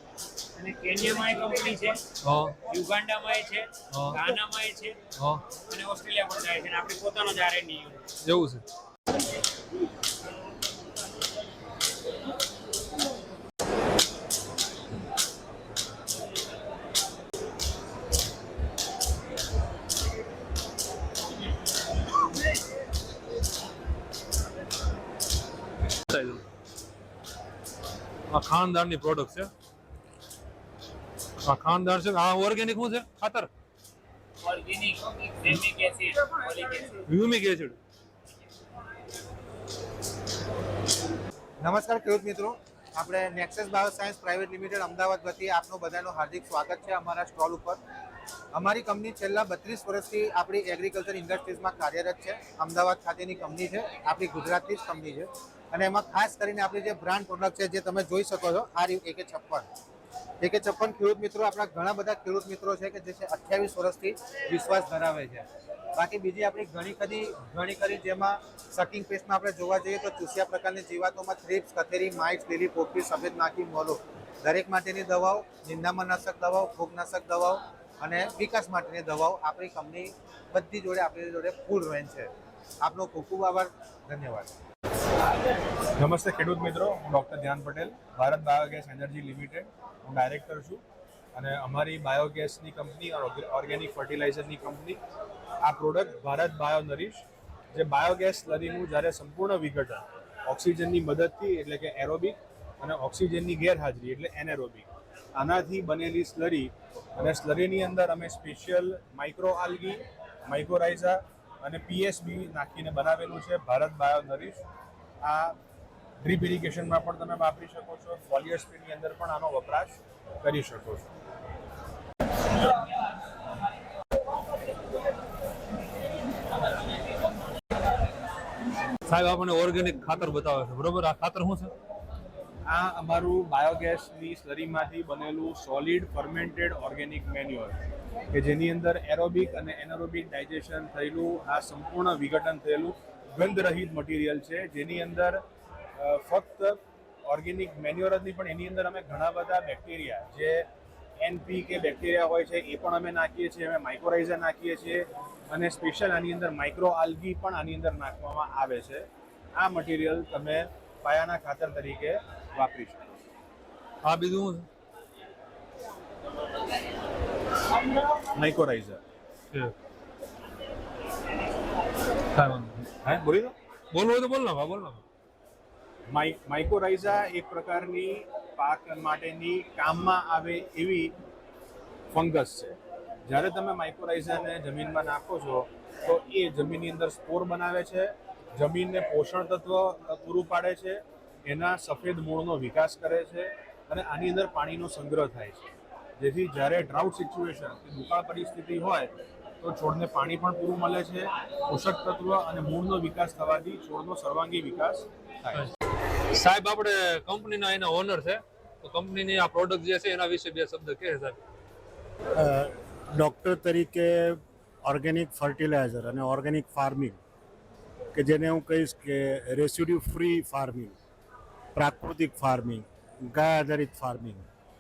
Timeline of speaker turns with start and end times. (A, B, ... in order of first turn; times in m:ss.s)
0:00.6-0:02.0 A
0:02.2-0:02.6 B
0:02.6-0:05.0 A
0:03.9-0:04.2 B
0:05.2-0:05.4 B
0:05.6-0:08.0 A
0:08.2-0:08.6 B
0:26.1-0:26.4 B
0:28.3-0:29.5 B
0:31.4-0:33.5 B
0:34.4-0:36.9 A
0:37.1-0:37.8 B
0:41.6-0:47.8 C
0:48.5-0:59.7 C
1:00.4-1:05.4 C
1:06.0-1:22.3 C
1:22.8-1:24.5 C
1:26.0-1:30.8 D
1:31.4-1:35.0 D
1:35.6-1:54.6 D
1:55.2-1:55.6 D
1:56.2-2:01.1 D
2:09.1-2:11.7 B
2:12.7-2:17.8 D
2:18.3-2:25.4 D
2:26.0-2:30.7 D
2:31.2-2:39.1 D
2:39.6-2:43.0 D
2:44.0-2:44.7 B
2:48.4-2:49.0 D
2:52.4-2:52.9 B
2:53.0-2:53.6 D
2:53.9-2:55.0 B
2:56.1-3:01.1 D
3:02.1-3:15.6 D
3:16.2-3:25.7 D
3:26.3-3:31.4 B
3:32.4-3:37.2 E
3:38.1-3:41.0 E
3:41.8-3:44.5 E